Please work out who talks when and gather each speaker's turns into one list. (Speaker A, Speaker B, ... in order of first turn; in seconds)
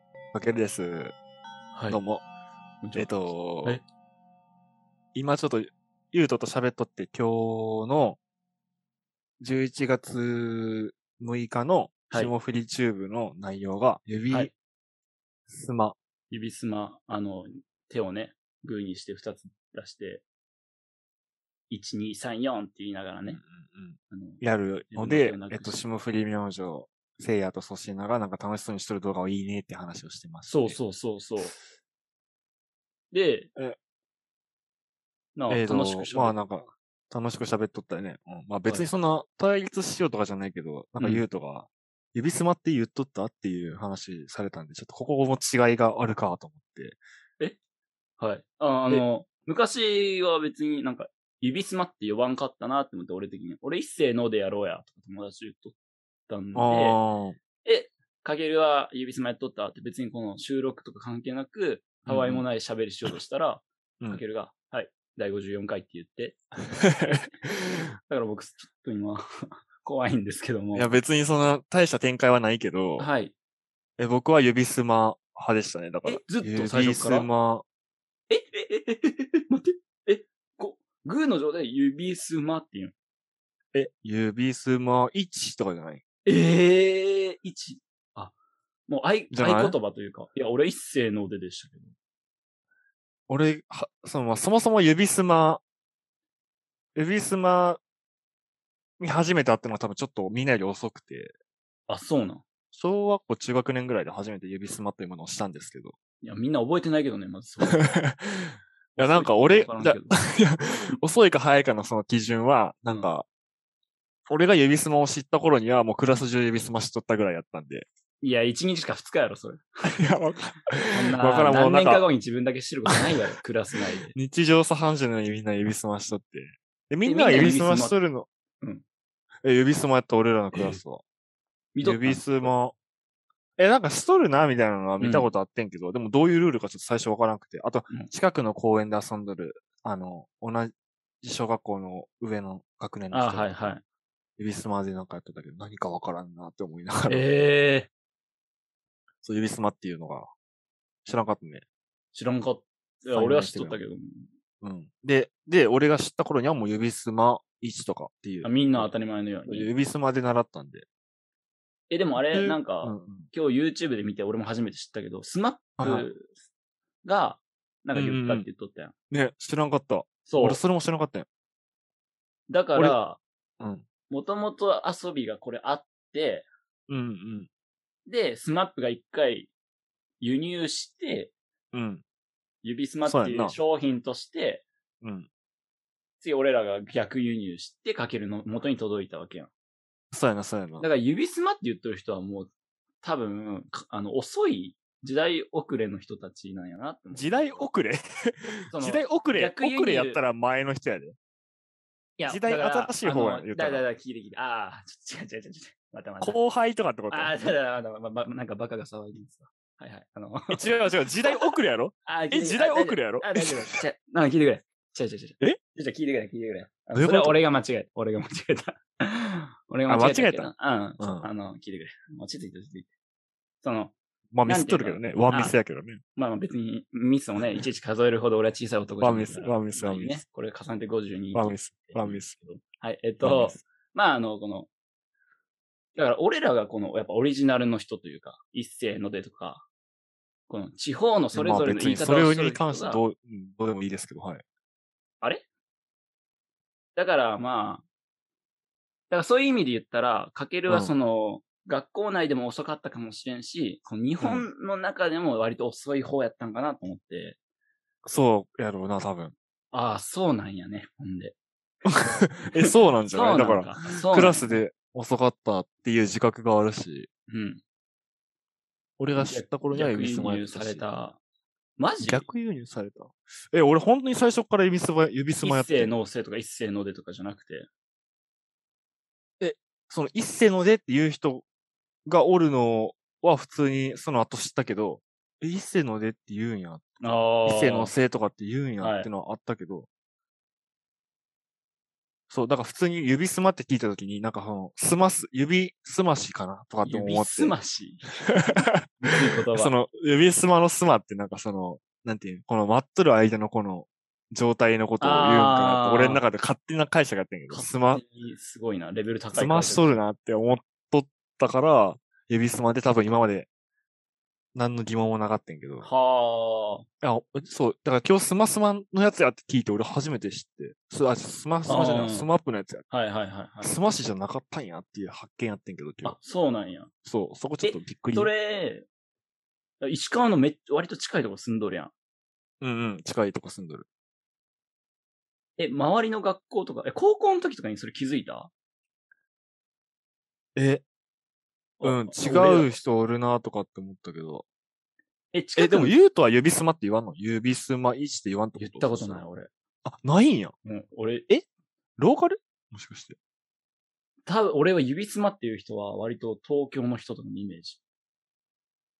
Speaker A: 0.3-1.1, 1.9-2.2, 3.0-3.8, 5.1-8.2, 9.4-14.5, 15.5-16.0, 23.3-30.8, 35.5-47.0, 56.5-57.4, 62.1-62.5, 66.8-67.7, 70.8-73.1, 74.0-77.7, 83.7-86.0, 89.3-89.8, 93.3-95.6, 97.0-97.8, 99.0-101.3, 102.7-105.9, 107.7-113.3, 114.3-117.9, 119.8-122.1, 124.1-128.3, 129.4-131.0, 131.8-132.8, 133.6-143.7, 144.4-147.3, 149.2-150.3, 151.1-151.6, 153.1-153.8, 154.6-158.9, 159.5-160.9, 162.2-163.3, 165.8-166.1, 167.9-168.5, 169.1-171.3, 173.6-173.8, 176.9-177.5, 181.7-182.0, 183.1-183.6, 185.0-185.3, 190.1-190.9, 197.1-201.2, 202.2-203.8, 206.2-207.5, 210.5-213.8, 216.9-217.4, 219.9-221.3, 224.3-226.0, 229.0-230.2, 231.3-232.4, 233.2-233.6, 241.3-244.4, 254.2-254.5, 258.1-259.3, 261.9-267.1, 269.0-270.9, 272.0-275.9, 279.4-281.4, 282.1-286.9, 287.4-289.9, 292.3-297.6, 298.3-298.8, 299.5-308.0, 309.3-313.5, 314.6-315.9, 317.0-322.9, 323.6-326.2, 327.1-328.3, 332.6-333.9, 340.6-340.9, 341.8-344.4, 345.6-349.2, 349.9-350.5, 352.0-353.2
Speaker B: 1.8-2.0, 2.8-3.8, 16.3-20.2, 21.7-23.4, 24.1-25.8, 30.5-31.6, 33.1-33.5, 35.4-36.4, 48.2-55.8, 56.3-57.0, 57.6-66.4, 67.0-67.4, 68.0-71.0, 73.0-73.3, 76.0-77.3, 78.3-83.0, 86.3-88.3, 88.9-91.9, 101.9-102.4, 106.2-107.9, 109.0-110.2, 118.2-120.1, 120.9-124.1, 127.0-128.0, 130.5-130.8, 131.8-132.5, 135.0-135.3, 143.1-143.8, 147.1-147.9, 152.1-154.3, 158.4-159.7, 161.9-166.3, 167.0-168.9, 170.3-170.6, 172.5-173.2, 174.1-176.5, 178.1-179.5, 180.2-181.3, 182.6-184.7, 186.2-189.5, 190.8-192.5, 193.0-197.7, 198.7-200.2, 202.2-206.4, 207.1-210.6, 212.1-222.9, 223.6-225.6, 226.2-234.7, 236.0-239.7, 240.5-243.0, 247.0-247.8, 249.1-257.4, 259.7-261.4, 262.5-264.5, 267.3-267.6, 269.2-271.2, 271.8-272.3, 275.4-277.7, 287.0-287.9, 288.8-289.1, 296.9-298.3, 299.0-299.7, 305.0-306.2, 307.5-310.0, 315.8-316.9, 321.7-322.3, 322.9-323.7, 326.0-326.9, 327.6-328.9, 329.8-331.9, 335.6-338.5, 341.8-342.7, 345.3-345.9, 348.6-349.5, 350.6-351.3, 354.3-357.8